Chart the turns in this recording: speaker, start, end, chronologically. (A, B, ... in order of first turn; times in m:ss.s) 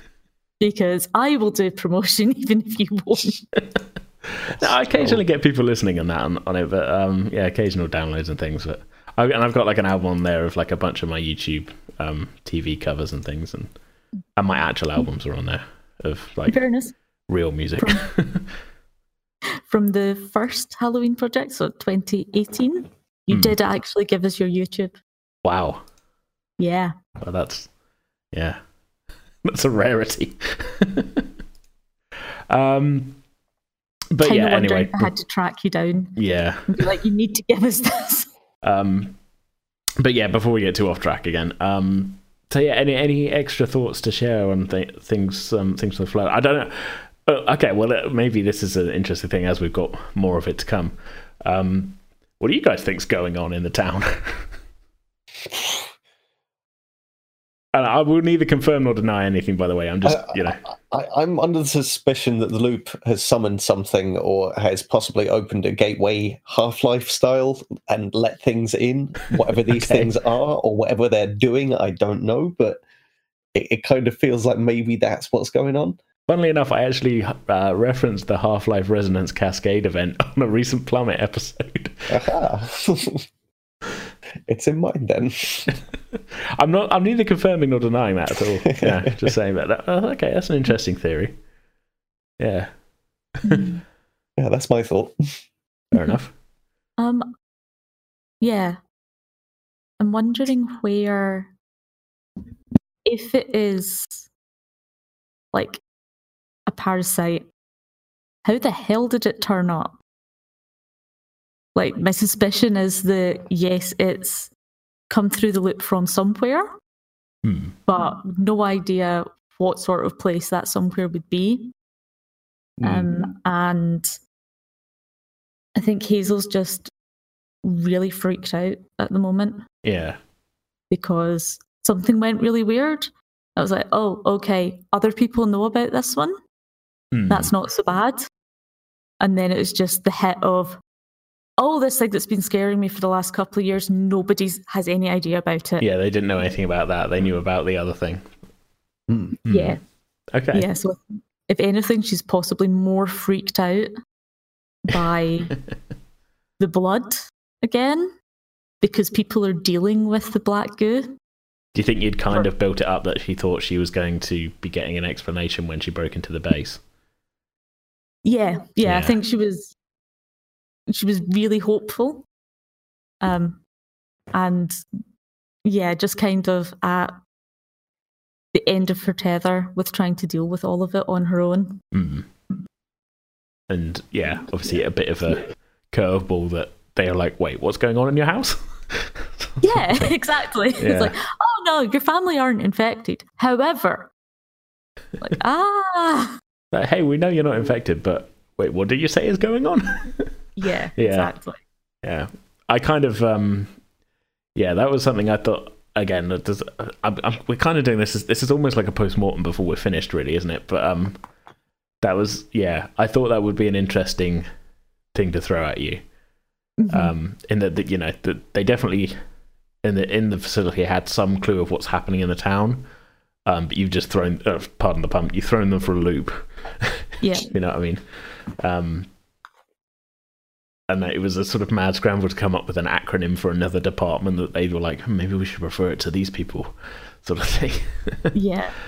0:00.6-0:03.4 A
0:03.6-0:13.7 B
0:04.5-0:05.2 C
0:14.4-0:16.7 B
0:16.5-0:17.0 A
0:17.3-0:18.5 B
0:17.8-0:18.1 A
0:19.7-0:25.0 A
0:23.3-0:23.6 B
0:25.4-0:25.8 B
0:26.6-0:26.9 A
0:27.2-0:27.7 B
0:28.3-0:28.6 B
0:29.4-0:31.3 B
0:32.5-0:33.2 B
0:34.1-0:35.1 B
0:34.2-0:38.3 A
0:36.2-0:36.9 B
0:38.6-0:39.2 B
0:40.0-0:54.5 B
0:55.5-0:55.8 C
0:57.7-1:00.6 B
1:00.0-1:12.8 C
1:09.8-1:10.1 B
1:13.5-1:16.0 C
1:16.3-1:22.3 B
1:22.1-1:23.3 C
1:24.5-1:25.7 C
1:26.1-1:31.3 B
1:28.7-1:29.4 C
1:32.4-1:32.7 B
1:33.4-1:33.8 A
1:34.4-1:35.2 C
1:35.9-1:36.3 B
1:37.0-1:37.3 A
1:38.4-1:38.8 A
1:40.0-1:41.5 A
1:43.0-1:44.3 A
1:45.5-1:45.8 A
1:46.7-1:47.5 A
1:48.5-1:50.0 A
1:51.8-1:54.5 A
1:55.1-1:56.7 A
1:57.4-1:57.8 B
1:57.9-2:01.7 A
2:02.8-2:03.1 C
2:02.8-2:04.1 A
2:05.8-2:06.9 A
2:07.6-2:09.6 A
2:09.8-2:10.2 B
2:10.9-2:16.4 A
2:17.1-2:17.5 B
2:17.3-2:18.3 A
2:19.2-2:20.8 A
2:21.6-2:25.9 A
2:25.8-2:28.3 B
2:29.1-2:29.4 C
2:29.4-2:29.8 B
2:29.5-2:29.8 A
2:30.3-2:30.7 B
2:30.5-2:33.9 A
2:34.8-2:35.5 A
2:36.6-2:38.2 A
2:38.8-2:41.2 A
2:41.8-2:46.8 B
2:48.2-2:49.8 A
2:48.8-2:49.2 B
2:50.9-2:52.3 A
2:53.2-2:53.6 A
2:54.3-2:54.8 A
2:55.6-2:57.2 A
2:58.5-3:01.8 A
3:01.9-3:02.3 B
3:03.7-3:10.1 B
3:09.6-3:14.1 A
3:10.8-3:11.1 B
3:15.2-3:16.4 A
3:16.7-3:20.3 B
3:20.6-3:21.6 A
3:21.0-3:21.3 B
3:22.0-3:23.8 B
3:24.6-3:31.2 B
3:32.0-3:34.5 B
3:35.1-3:36.0 B
3:36.8-3:37.1 A
3:36.9-3:39.2 B
3:39.8-3:42.9 B
3:43.4-3:49.1 B
3:47.2-3:47.5 A
3:50.9-3:58.3 B
3:58.3-3:58.7 A